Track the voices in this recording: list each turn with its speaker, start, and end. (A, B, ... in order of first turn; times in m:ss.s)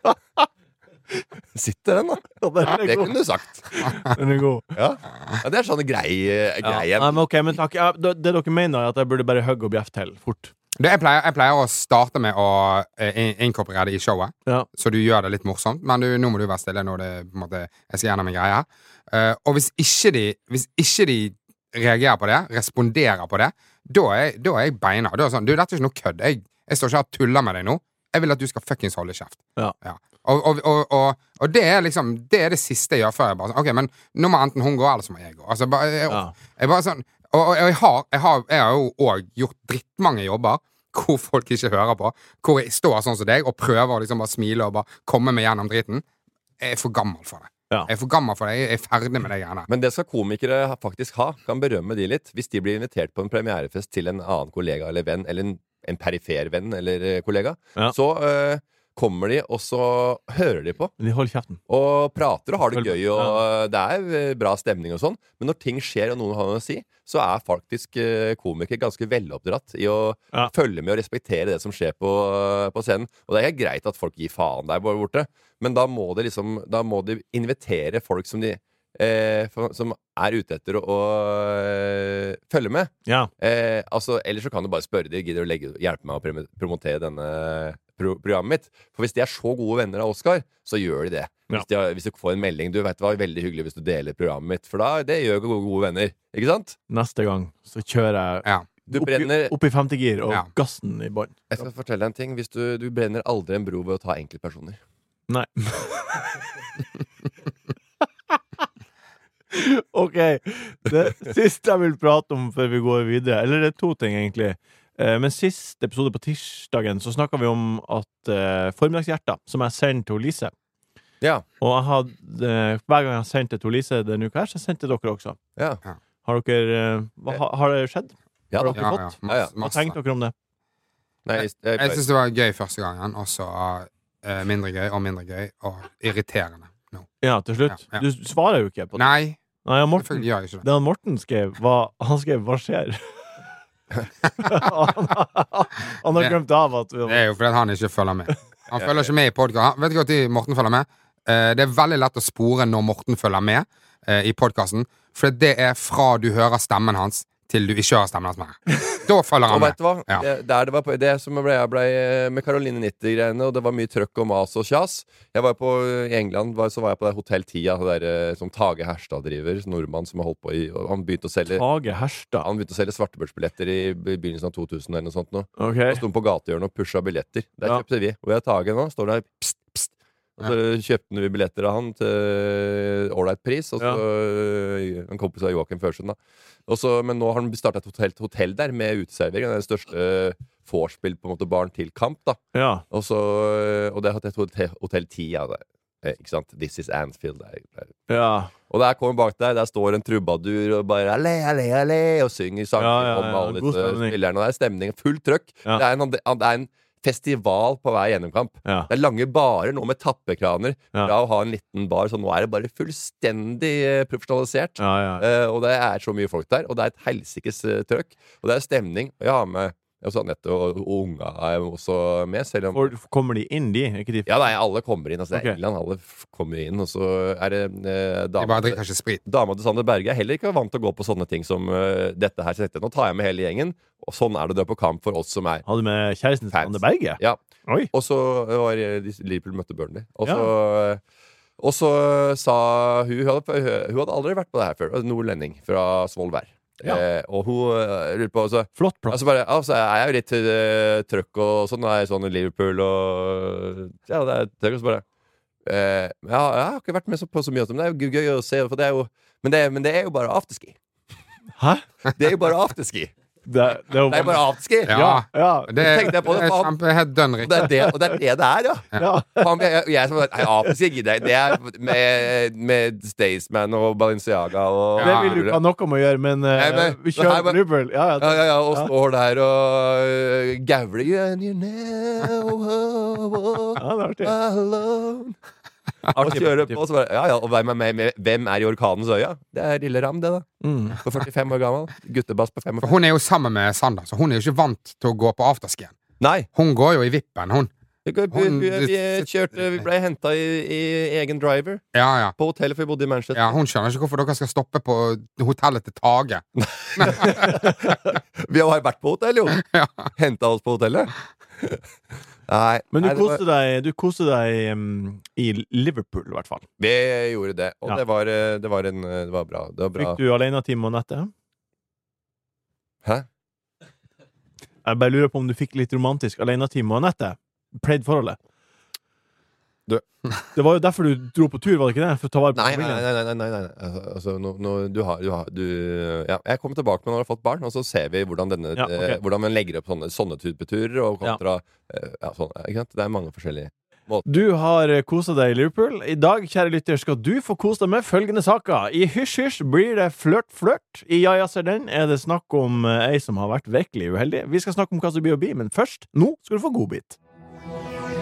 0:01.5-0:03.7 A
0:02.4-0:04.6 B
0:04.7-0:07.2 A
0:06.6-0:10.5 B
0:10.8-0:46.0 C
0:36.1-0:36.3 B
0:46.6-0:49.7 C
0:49.7-1:00.9 A
1:01.0-1:01.6 B
1:01.7-1:36.8 A
1:02.7-1:03.4 B
1:36.9-1:41.4 B
1:38.9-1:39.5 A
1:41.5-1:44.8 A
1:45.3-1:46.2 B
1:49.5-2:00.5 B
2:01.6-2:05.4 B
2:06.2-2:10.3 B
2:08.5-2:09.5 A
2:08.7-2:09.9 C
2:11.2-2:12.0 A
2:11.4-2:17.1 C
2:17.2-2:19.1 B
2:17.7-2:18.0 C
2:19.0-2:19.4 C
2:19.6-2:23.1 B
2:20.0-2:20.6 C
2:24.4-2:27.3 B
2:27.1-2:40.2 C
2:28.7-2:29.0 A
2:39.5-2:51.6 A
2:51.5-2:52.4 B
2:52.4-3:18.0 A
2:55.6-2:56.0 B
3:12.5-3:12.8 B
3:18.1-3:18.5 B
3:18.7-3:42.9 A
3:22.8-3:24.1 B
3:28.6-3:28.9 B
3:34.8-3:35.2 B
3:42.7-3:44.3 B
3:44.3-3:55.6 A
3:48.4-3:49.2 C
3:55.6-3:57.9 B
3:56.5-3:57.4 A
3:57.9-4:01.0 A
4:01.6-4:15.0 A
4:08.8-4:09.2 B
4:15.6-4:20.8 A
4:21.6-4:21.8 B
4:22.1-4:23.1 A
4:23.5-4:26.1 B
4:24.1-4:25.0 A
4:24.9-4:27.8 C
4:25.8-4:26.7 A
4:27.4-4:35.6 A
4:29.0-4:29.6 B
4:35.0-4:35.3 C
4:35.0-4:38.9 B
4:36.5-4:37.6 A
4:38.2-4:45.4 A
4:43.8-4:44.3 B
4:46.1-4:50.5 A
4:46.2-4:46.8 B
4:50.6-4:51.0 B
4:51.0-4:53.0 A
4:52.8-4:56.0 C
4:56.2-4:56.5 A
4:56.5-4:57.7 C
4:58.0-5:01.8 A
4:58.3-4:59.3 C
5:01.9-5:02.3 C
5:02.4-5:03.6 A
5:03.3-5:06.4 C
5:06.6-5:11.8 A
5:07.0-5:07.5 C
5:09.6-5:09.9 C
5:12.5-5:13.4 A
5:12.9-5:16.6 B
5:16.8-5:20.2 A
5:20.0-5:21.3 B
5:24.8-5:28.4 B
5:30.5-5:33.0 B
5:32.5-5:44.4 A
5:38.8-5:39.2 B
5:44.2-5:57.2 B